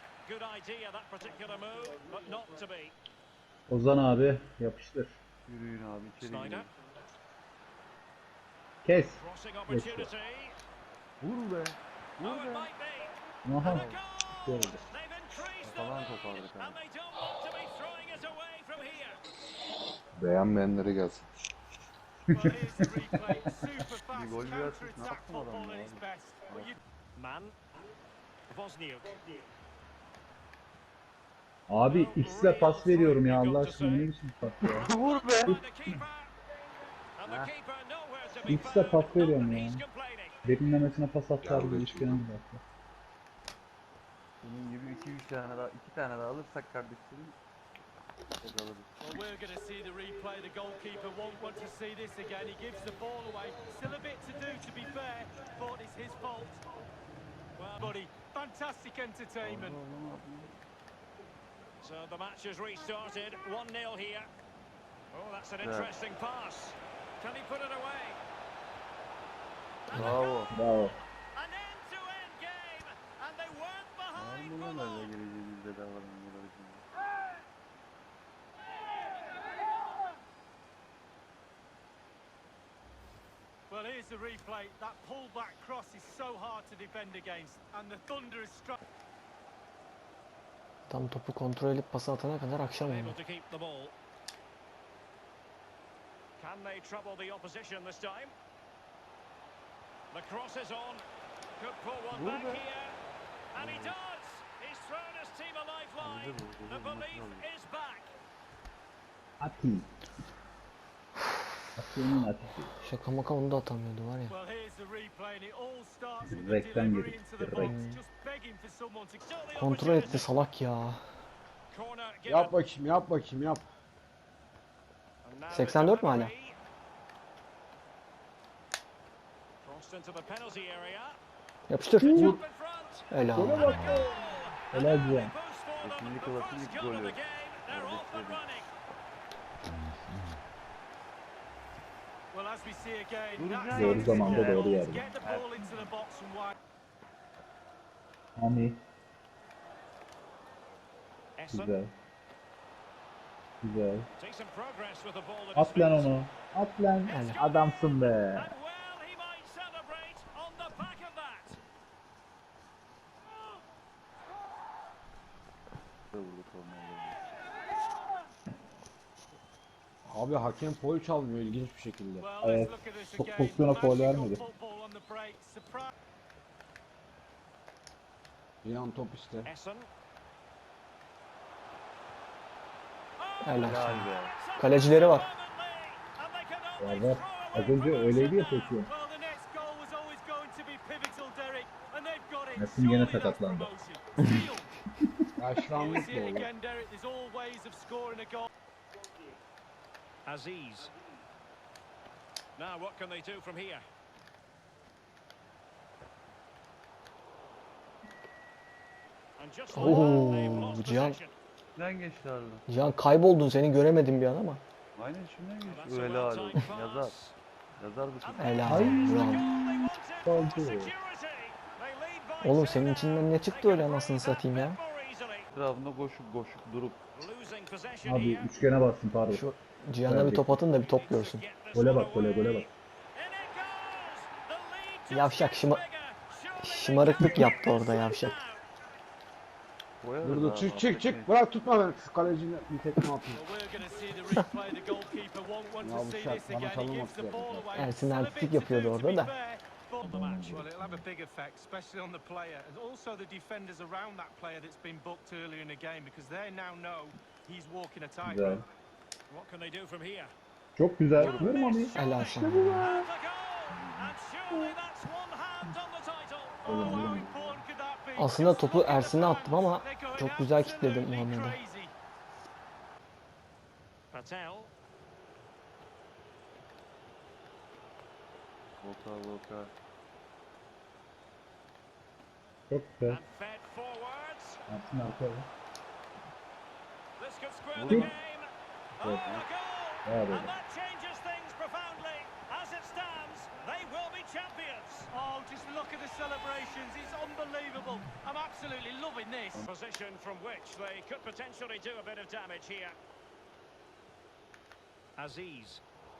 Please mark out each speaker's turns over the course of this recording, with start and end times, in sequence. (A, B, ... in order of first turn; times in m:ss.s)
0:00.2-0:02.9 A
0:03.7-0:05.1 B
0:05.5-0:06.7 C
0:06.2-0:06.7 A
0:08.8-0:10.1 B
0:09.2-0:10.6 A
0:11.2-0:12.7 C
0:12.2-0:16.0 A
0:13.4-0:13.8 B
0:13.7-0:14.0 C
0:14.5-0:14.8 B
0:15.6-0:16.8 C
0:16.6-0:19.2 A
0:20.5-0:21.1 D
0:22.3-0:26.8 E
0:24.1-0:26.7 C
0:27.2-0:27.5 A
0:28.5-0:29.2 A
0:31.7-0:34.9 B
0:31.9-0:34.1 A
0:34.8-0:35.6 C
0:34.8-0:36.3 A
0:37.2-0:40.4 A
0:37.2-0:37.5 F
0:38.4-0:39.8 B
0:40.4-0:42.6 B
0:41.5-0:42.1 F
0:44.4-0:47.3 C
0:48.4-0:48.9 C
0:49.0-0:56.6 E
0:57.6-0:57.9 A
0:57.8-0:59.8 E
0:59.4-1:00.5 C
1:01.8-1:04.3 A
1:05.1-1:08.2 A
1:05.6-1:06.0 C
1:09.9-1:10.4 A
1:09.9-1:10.5 C
1:10.5-1:11.0 B
1:11.3-1:15.1 A
1:14.2-1:16.8 C
1:23.7-1:28.8 E
1:30.9-1:33.2 D
1:32.8-1:33.9 A
1:36.4-1:38.3 A
1:40.1-1:41.0 A
1:41.6-1:43.0 A
1:42.1-1:42.6 C
1:43.5-1:48.1 A
1:43.5-1:44.0 C
1:46.0-1:47.5 C
1:49.4-1:49.9 B
1:51.8-1:52.7 B
1:52.8-1:54.4 D
1:54.3-1:59.3 E
1:56.2-1:57.7 B
1:57.6-1:58.0 D
1:59.2-2:00.4 A
1:59.5-2:01.0 D
2:01.7-2:02.8 A
2:02.3-2:03.6 F
2:05.2-2:06.6 A
2:05.5-2:06.3 D
2:09.6-2:11.2 A
2:11.7-2:12.4 D
2:12.0-2:12.3 B
2:12.1-2:13.1 A
2:13.1-2:13.8 D
2:13.3-2:15.3 B
2:13.6-2:18.7 A
2:15.8-2:18.6 C
2:22.3-2:26.6 E
2:23.4-2:25.9 C
2:23.7-2:25.1 B
2:28.4-2:28.8 B
2:31.4-2:31.8 A
2:31.5-2:31.9 B
2:33.6-2:34.1 B
2:34.2-2:36.2 A
2:35.5-2:38.5 B
2:37.1-2:41.6 A
2:37.1-2:37.4 D
2:46.1-2:47.2 C
2:50.0-2:52.2 F
2:52.2-2:55.9 E
2:52.4-2:54.4 B
2:58.6-2:59.5 F
2:59.4-2:59.9 A
3:03.2-3:08.8 A
3:03.4-3:05.3 D
3:03.6-3:04.4 C
3:06.8-3:08.9 B
3:08.9-3:14.7 E
3:12.6-3:13.7 B
3:15.4-3:16.5 F
3:15.6-3:18.5 E
3:20.2-3:20.9 A
3:22.6-3:23.8 A
3:29.4-3:31.3 A
3:29.7-3:31.2 D
3:31.8-3:32.6 C
3:32.7-3:34.6 D
3:35.0-3:37.1 C
3:35.6-3:37.3 A
3:37.8-3:39.0 C
3:38.2-3:45.5 A
3:38.4-3:39.5 D
3:38.7-3:39.7 B
3:40.2-3:40.9 B
3:42.4-3:44.8 D
3:45.5-3:47.0 C
3:47.1-3:48.5 A
3:48.0-3:49.4 B
3:49.3-3:51.4 D
3:50.1-3:50.4 B
3:50.8-3:58.6 A
3:51.7-3:52.7 B
3:55.1-3:55.8 D
3:56.6-3:58.4 D
4:00.0-4:01.3 C
4:00.2-4:03.4 F
4:03.3-4:18.6 E
4:05.8-4:07.8 F
4:07.7-4:09.3 D
4:10.0-4:11.0 B
4:10.1-4:10.6 A
4:18.2-4:18.6 B
4:19.3-4:20.3 A
4:20.8-4:21.9 B
4:21.2-4:21.6 C
4:21.2-4:26.7 A
4:21.9-4:22.9 D
4:22.4-4:23.0 F
4:26.6-4:31.9 E
4:26.6-4:27.3 B
4:27.1-4:27.6 F
4:28.2-4:31.6 D
4:34.1-4:34.7 A
4:38.8-4:39.7 C
4:42.7-4:43.2 B
4:43.1-4:44.6 A
4:44.7-4:45.5 B
4:47.2-4:48.5 A
4:47.8-4:48.1 C
4:49.0-4:55.1 A
4:49.0-4:49.4 B
4:50.0-4:50.5 B
4:55.1-4:59.6 E
4:59.6-5:03.0 A
5:05.2-5:05.8 A